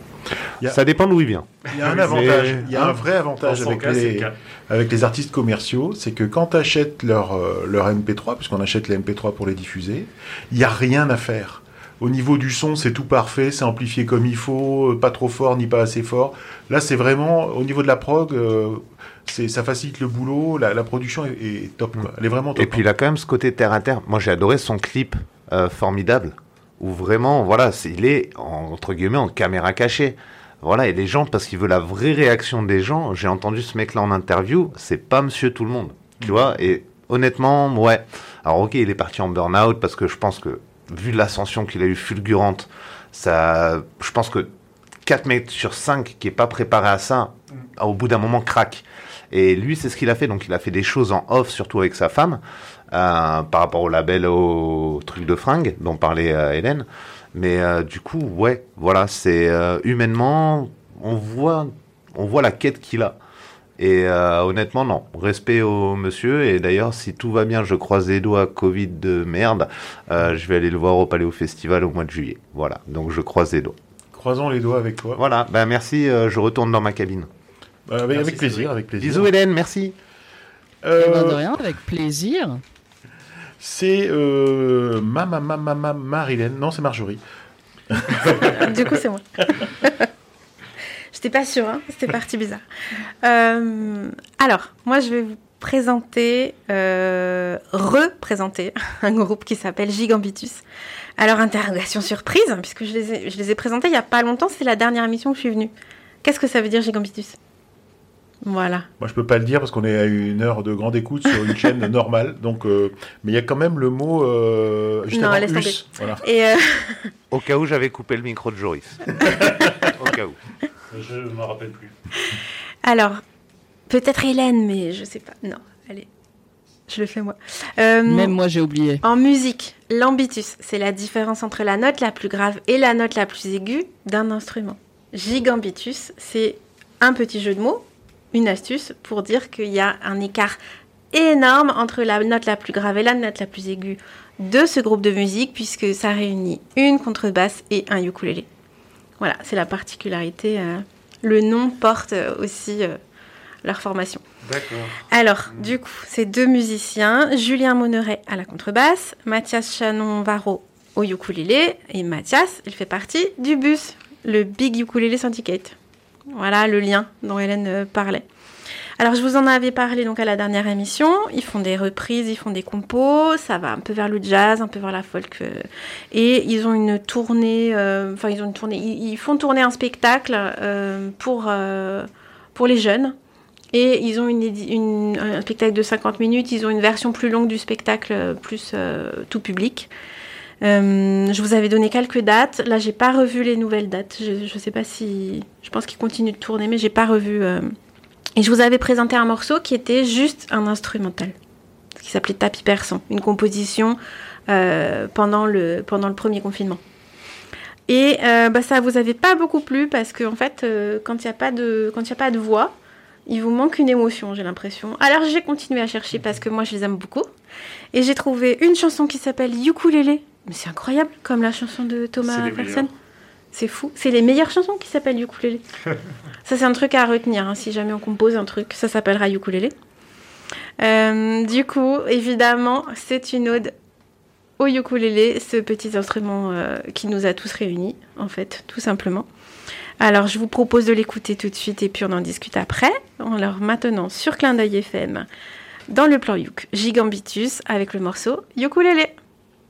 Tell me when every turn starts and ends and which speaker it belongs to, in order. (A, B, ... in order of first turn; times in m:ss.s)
0:00.7-0:01.5 A
0:01.7-0:22.8 B
0:02.0-0:02.4 C
0:02.0-0:02.8 A
0:03.4-0:04.3 C
0:22.6-0:44.5 A
0:45.1-1:03.2 A
1:03.8-1:13.8 A
1:14.1-1:15.2 B
1:15.2-1:17.3 A
1:17.9-1:19.3 B
1:18.2-1:18.7 C
1:19.0-1:19.9 A
1:20.8-1:21.4 B
1:21.0-1:22.6 D
1:23.6-1:27.2 B
1:27.9-1:28.2 B
1:28.2-1:30.1 E
1:31.1-1:32.6 E
1:33.2-1:40.6 E
1:41.2-1:45.7 E
1:46.2-1:47.4 E
1:48.4-1:48.9 E
1:49.0-1:56.2 B
1:55.1-1:57.1 E
1:57.3-2:00.4 A
1:59.3-1:59.6 B
2:00.9-2:01.9 C
2:02.8-2:03.2 E
2:03.9-2:06.1 E
2:06.9-2:08.4 E
2:08.1-2:09.0 D
2:09.0-2:20.6 E
2:21.1-2:28.5 E
2:29.2-2:33.0 E
2:33.6-2:34.2 E
2:34.4-2:35.7 C
2:35.1-2:45.8 E
2:46.3-2:48.2 E
2:49.0-3:03.2 E
3:03.7-3:09.9 E
3:10.6-3:17.7 E
3:18.4-3:21.4 E
3:22.0-3:26.8 E
3:27.9-3:32.7 E
3:33.3-3:37.3 E
3:37.9-3:42.9 E
3:42.2-3:42.9 C
3:43.5-3:45.6 E
3:46.4-3:49.7 E
3:50.8-3:53.7 E
3:54.6-3:59.3 E
4:00.0-4:05.3 E
4:05.9-4:09.1 E